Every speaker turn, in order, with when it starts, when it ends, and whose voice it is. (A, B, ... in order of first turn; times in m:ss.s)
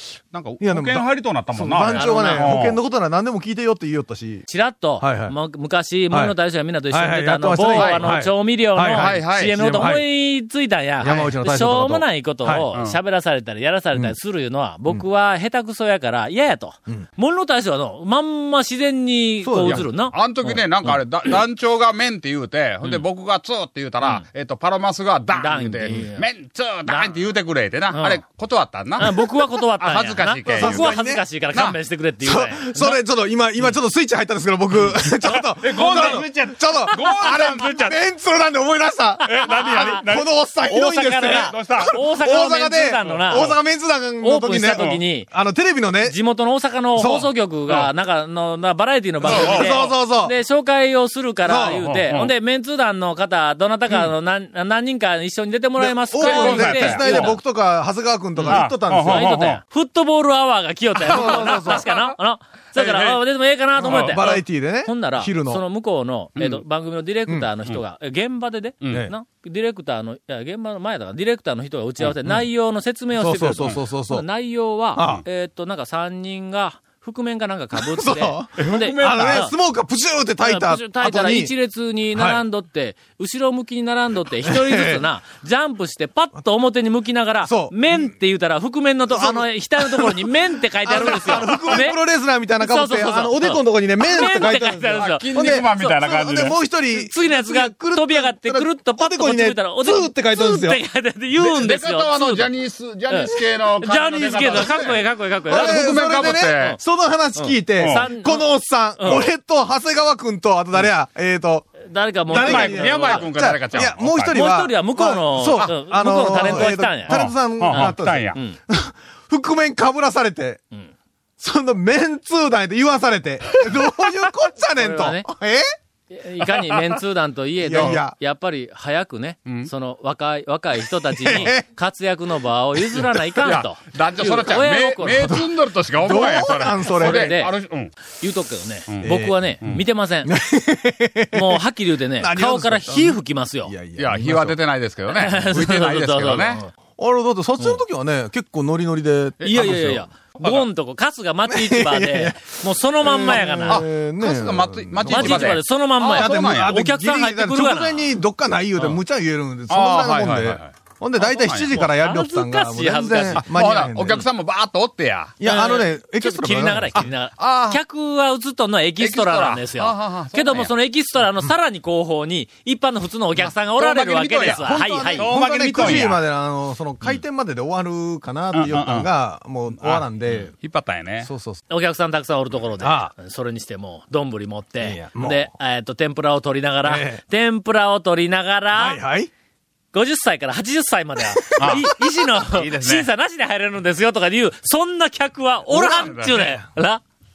0:00.3-0:02.8 A
0:00.6-0:04.5 B
0:01.9-0:02.6 C
0:04.5-0:21.4 C
0:05.0-0:05.4 B
0:06.1-0:06.4 B
0:06.9-0:10.1 B
0:07.7-0:08.0 A
0:08.9-0:09.6 A
0:11.0-0:12.7 B
0:19.4-0:19.8 B
0:19.7-0:29.1 A
0:25.3-0:26.3 C
0:26.9-0:27.1 C
0:27.9-0:28.2 C
0:29.0-0:33.0 C
0:29.7-0:30.9 A
0:30.5-0:31.2 B
0:32.2-0:46.2 B
0:35.4-0:38.0 A
0:35.8-0:36.3 C
0:39.2-0:40.3 A
0:39.3-0:40.0 C
0:40.7-0:43.6 C
0:41.2-0:41.9 A
0:44.2-0:45.3 C
0:46.0-0:57.4 C
0:46.9-0:47.3 B
0:49.2-0:50.3 B
0:49.3-0:49.8 A
0:51.4-0:51.9 B
0:51.7-0:52.3 A
0:55.8-0:59.6 B
0:56.1-0:57.4 A
0:58.4-1:19.5 C
0:58.5-0:59.6 A
1:01.0-1:01.9 B
1:01.6-1:02.0 A
1:02.8-1:03.2 B
1:03.8-1:05.6 B
1:03.8-1:04.2 A
1:06.4-1:06.6 A
1:13.1-1:14.3 B
1:14.9-1:15.2 B
1:17.8-1:21.5 B
1:18.7-1:19.5 A
1:20.4-1:32.0 C
1:22.1-1:22.4 B
1:24.4-1:25.1 B
1:27.4-1:28.2 B
1:29.1-1:40.8 B
1:32.6-1:36.0 C
1:34.9-1:36.6 A
1:37.0-1:42.5 C
1:41.4-1:46.8 A
1:43.1-1:45.9 C
1:44.5-1:44.8 B
1:45.5-1:51.7 B
1:46.5-1:46.8 C
1:47.4-1:49.3 C
1:47.8-1:48.0 A
1:51.8-1:58.6 C
1:52.3-2:00.6 B
1:52.3-1:54.4 A
1:56.5-1:58.4 A
2:01.4-2:05.7 B
2:04.8-2:05.3 C
2:06.1-2:15.4 C
2:07.6-2:08.2 B
2:07.7-2:08.0 A
2:11.0-2:11.7 B
2:13.4-2:17.9 A
2:15.1-2:17.4 B
2:17.0-2:17.5 C
2:18.1-2:20.4 C
2:18.9-2:19.8 A
2:19.0-2:19.4 B
2:20.2-2:21.6 B
2:21.3-2:23.7 C
2:22.2-2:24.6 B
2:24.0-2:26.6 A
2:25.1-2:26.7 C
2:27.0-2:30.1 B
2:29.4-2:33.8 C
2:30.4-2:30.7 A
2:31.5-2:44.3 B
2:33.7-2:36.8 A
2:35.1-2:38.2 C
2:39.7-2:41.7 A
2:41.4-2:43.5 C
2:43.4-2:45.4 A
2:45.4-2:47.1 B
2:45.4-2:56.2 C
2:47.4-2:47.8 A
2:49.0-2:50.7 A
2:53.4-2:56.2 A
2:54.6-3:00.5 B
2:58.5-2:59.1 A
2:59.8-3:01.3 A
3:01.2-3:01.6 B
3:01.7-3:09.0 C
3:02.8-3:03.1 B
3:04.8-3:05.5 B
3:06.8-3:07.2 B
3:08.7-3:09.3 B
3:09.9-3:17.0 C
3:11.3-3:11.9 B
3:11.6-3:11.9 A
3:12.4-3:13.1 A
3:15.7-3:16.6 B
3:15.8-3:16.3 A